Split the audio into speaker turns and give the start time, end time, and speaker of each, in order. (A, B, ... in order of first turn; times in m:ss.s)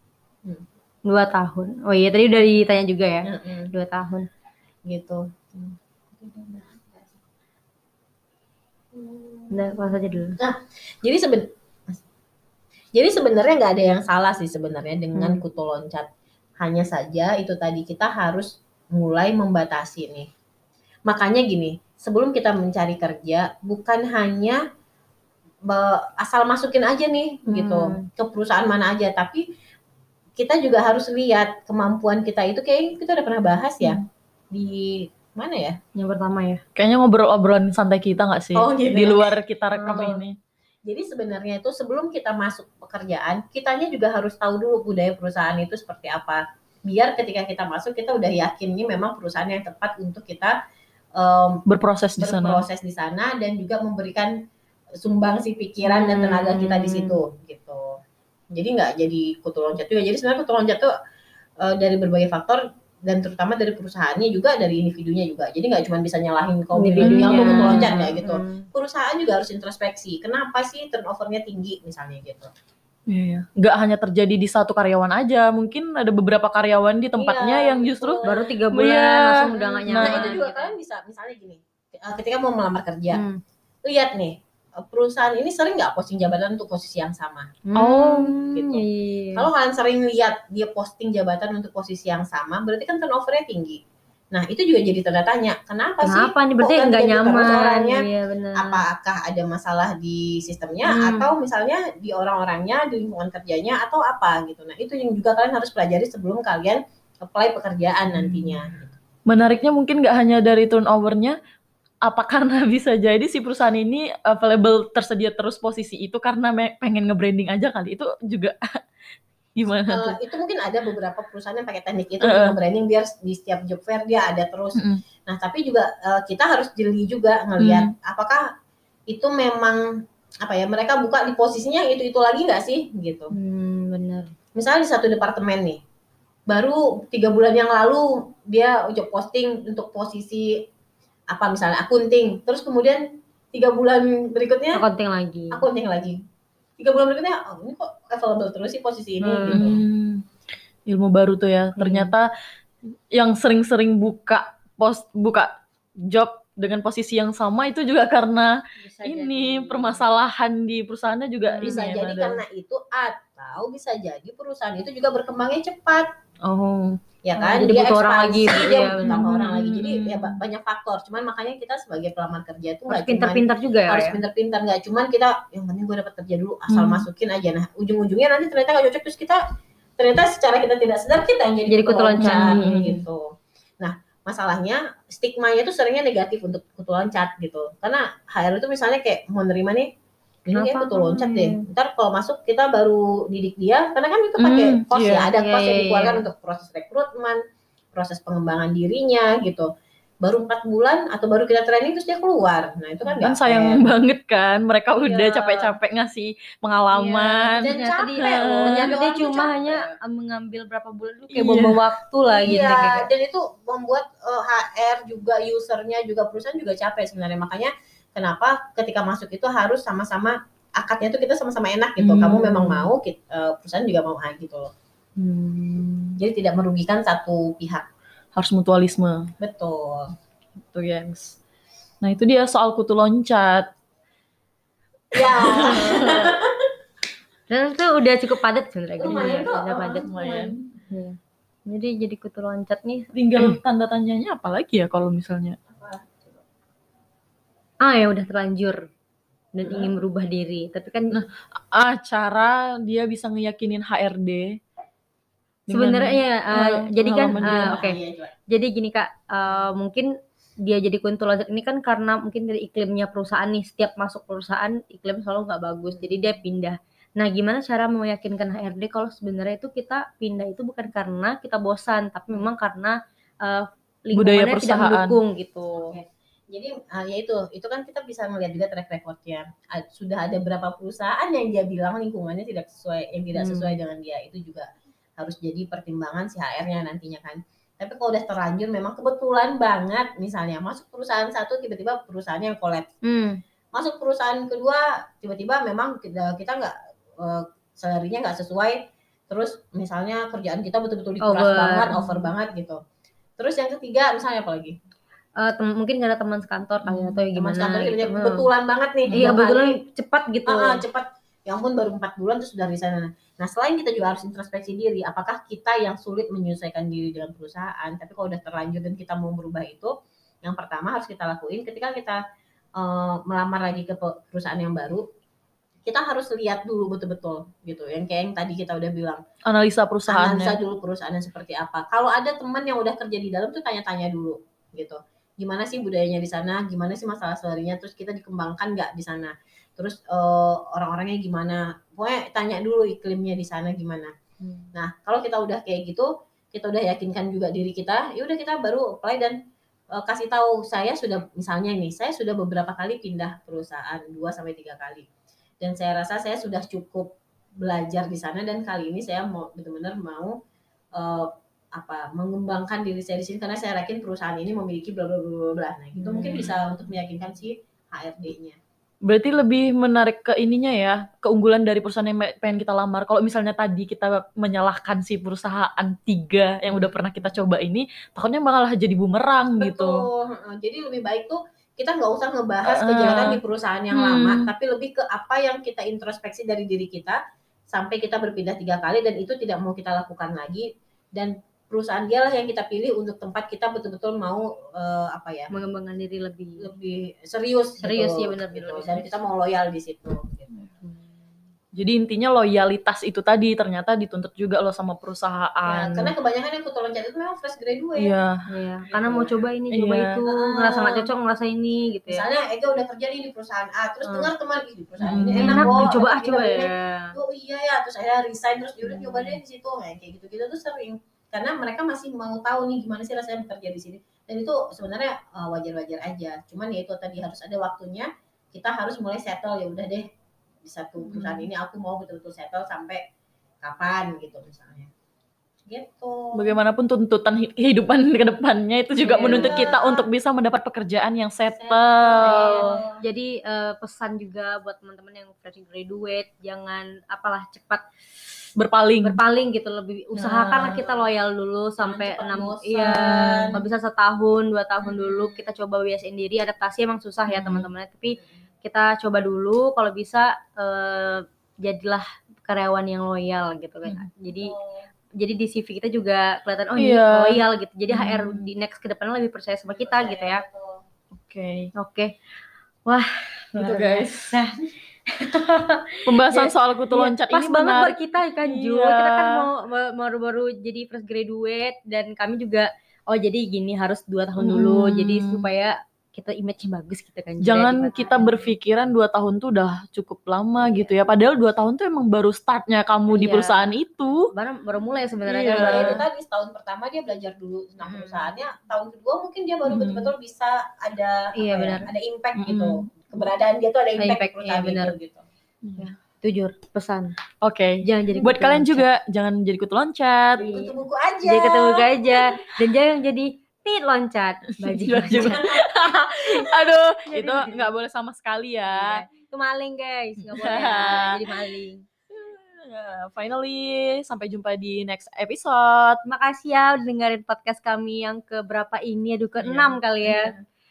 0:01.1-0:04.3 A
0:03.2-0:03.7 B
0:04.9-0:07.1 B
0:08.9-0:09.9 B
0:09.5-0:10.4 A
0:10.4-0:12.0 B
0:12.9-0:16.1 B
0:15.2-0:15.4 A
0:16.6-0:20.3 B
0:21.1-0:24.6 B
0:25.7-0:29.4 B
0:27.5-0:28.1 A
0:30.4-0:34.0 B
0:34.5-0:35.8 B
0:36.0-0:36.6 A
0:36.8-0:40.4 C
0:38.6-0:39.4 B
0:39.8-0:40.2 A
0:39.9-0:40.2 B
0:40.9-0:50.6 B
0:51.2-0:51.6 B
0:51.7-0:52.6 C
0:52.2-0:54.4 B
0:55.0-0:58.0 B
0:55.8-0:57.2 A
0:58.5-1:00.9 B
1:01.6-1:12.5 B
1:06.8-1:08.7 A
1:07.0-1:08.0 C
1:13.1-1:19.3 C
1:17.2-1:18.3 B
1:18.2-1:20.7 A
1:19.6-1:23.2 B
1:19.9-1:20.4 C
1:23.1-1:23.4 A
1:23.8-1:27.5 B
1:27.7-1:29.5 A
1:27.8-1:28.3 C
1:28.5-1:28.8 B
1:29.4-1:33.8 B
1:34.3-1:38.0 B
1:36.0-1:38.8 A
1:38.6-1:49.0 B
1:40.8-1:41.3 A
1:48.2-1:48.6 C
1:49.3-1:51.4 C
1:52.0-1:58.6 C
1:59.6-2:00.2 C
1:59.9-2:08.4 B
2:02.2-2:02.6 C
2:04.8-2:05.0 C
2:07.6-2:07.9 C
2:09.1-2:13.3 B
2:13.3-2:14.3 A
2:14.6-2:15.8 B
2:16.5-2:20.6 B
2:21.3-2:24.8 B
2:24.7-2:25.6 A
2:25.5-2:26.2 B
2:26.8-2:29.8 B
2:29.2-2:29.7 A
2:29.5-2:30.2 C
2:30.9-2:32.3 C
2:31.8-2:32.1 A
2:33.1-2:35.5 C
2:36.1-2:42.4 C
2:38.8-2:40.1 A
2:41.5-2:41.9 A
2:41.6-2:46.1 B
2:46.4-2:47.0 C
2:47.2-2:59.4 B
2:47.4-2:49.2 A
2:49.0-2:50.4 C
2:52.9-2:54.2 A
2:56.7-2:57.1 C
3:00.0-3:09.9 B
3:01.7-3:02.9 A
3:02.2-3:03.0 C
3:10.5-3:17.4 B
3:10.5-3:11.6 A
3:14.4-3:15.3 C
3:15.4-3:16.2 A
3:17.9-3:19.7 B
3:20.2-3:23.8 B
3:23.2-3:28.9 C
3:25.0-3:25.7 A
3:27.0-3:30.0 B
3:27.1-3:33.1 A
3:31.3-3:31.8 C
3:32.3-3:44.7 B
3:42.0-3:42.9 C
3:45.5-3:45.8 A
3:46.2-3:47.9 B
3:48.4-3:49.3 C
3:49.4-3:50.1 B
3:50.7-3:51.4 C
3:52.0-3:53.7 C
3:55.1-3:56.5 B
3:55.2-3:56.3 C
3:57.5-4:00.1 A
3:59.0-4:00.6 B
4:00.0-4:00.7 C
4:00.9-4:01.2 A
4:01.7-4:03.6 A
4:03.2-4:05.6 C
4:05.8-4:06.2 B
4:07.8-4:08.8 A
4:09.5-4:11.2 A
4:11.1-4:14.6 C
4:15.7-4:17.8 C
4:15.7-4:20.1 A
4:17.4-4:18.3 B
4:20.6-4:36.0 A
4:25.9-4:26.3 B
4:34.1-4:35.2 C
4:35.9-4:44.7 B
4:43.3-4:43.8 A
4:45.2-4:52.9 B
4:53.0-4:53.4 A
4:53.7-5:02.8 B
5:01.2-5:02.0 A
5:03.4-5:04.8 B
5:05.4-5:08.5 A
5:06.8-5:07.2 C
5:07.3-5:09.7 B
5:09.1-5:10.8 A
5:10.5-5:22.2 B
5:22.8-5:25.1 B
5:25.9-5:29.2 B
5:29.5-5:30.6 C
5:30.1-5:44.1 B
5:44.4-5:44.7 A
5:44.7-5:49.4 B
5:50.0-5:55.1 B
5:55.6-6:00.4 B
6:01.0-6:08.6 B
6:06.0-6:06.6 C
6:09.1-6:20.0 C
6:16.7-6:17.4 B
6:19.6-6:27.2 B
6:22.7-6:23.4 C
6:23.9-6:24.5 C
6:27.7-6:35.5 B
6:35.5-6:36.7 A
6:36.6-6:40.5 B
6:37.8-6:39.1 A
6:41.8-6:46.1 C
6:45.7-6:48.1 B
6:48.0-6:48.3 C
6:48.5-6:52.3 A
6:48.9-6:49.4 B
6:49.7-6:50.2 C
6:50.2-6:51.1 B
6:52.1-7:10.1 B
6:54.0-6:54.3 A
6:55.0-6:55.9 C
6:55.4-6:57.2 A
6:58.9-6:59.4 A
7:10.6-7:13.0 B
7:11.1-7:11.5 C
7:13.6-7:14.9 B
7:15.7-7:16.6 B
7:16.4-7:22.8 C
7:19.0-7:19.8 A
7:19.2-7:20.1 B
7:21.6-7:23.0 B
7:22.2-7:27.8 A
7:28.6-7:29.2 C
7:29.0-7:44.6 A
7:30.2-7:30.8 C
7:30.8-7:31.0 B
7:31.8-7:33.6 B
7:32.9-7:33.5 C
7:34.8-7:35.5 B
7:37.3-7:37.7 C
7:44.4-7:44.9 B
7:45.2-7:50.4 A
7:46.8-7:48.5 C
7:49.7-7:50.8 B
7:51.2-7:51.7 C
7:51.8-7:52.1 A
7:52.9-8:08.5 A
7:53.6-7:54.3 C
7:56.1-7:59.5 C
8:04.4-8:05.5 C
8:07.4-8:14.3 C
8:13.1-8:13.6 A
8:14.3-8:16.0 A
8:15.3-8:16.0 C
8:15.6-8:25.2 B
8:17.8-8:18.3 A
8:19.6-8:20.1 C
8:21.4-8:21.9 A
8:22.4-8:22.9 C
8:24.0-8:25.0 A
8:25.6-8:25.9 C
8:25.8-8:27.2 A
8:27.4-8:30.5 C
8:27.8-8:28.8 A
8:30.4-8:31.9 B
8:30.4-8:36.5 A
8:34.6-8:39.0 C
8:35.2-8:35.5 B
8:37.0-8:37.7 A
8:38.7-8:41.8 A
8:40.2-8:41.5 C
8:42.1-8:46.0 C
8:46.1-8:50.3 A
8:49.4-8:50.4 C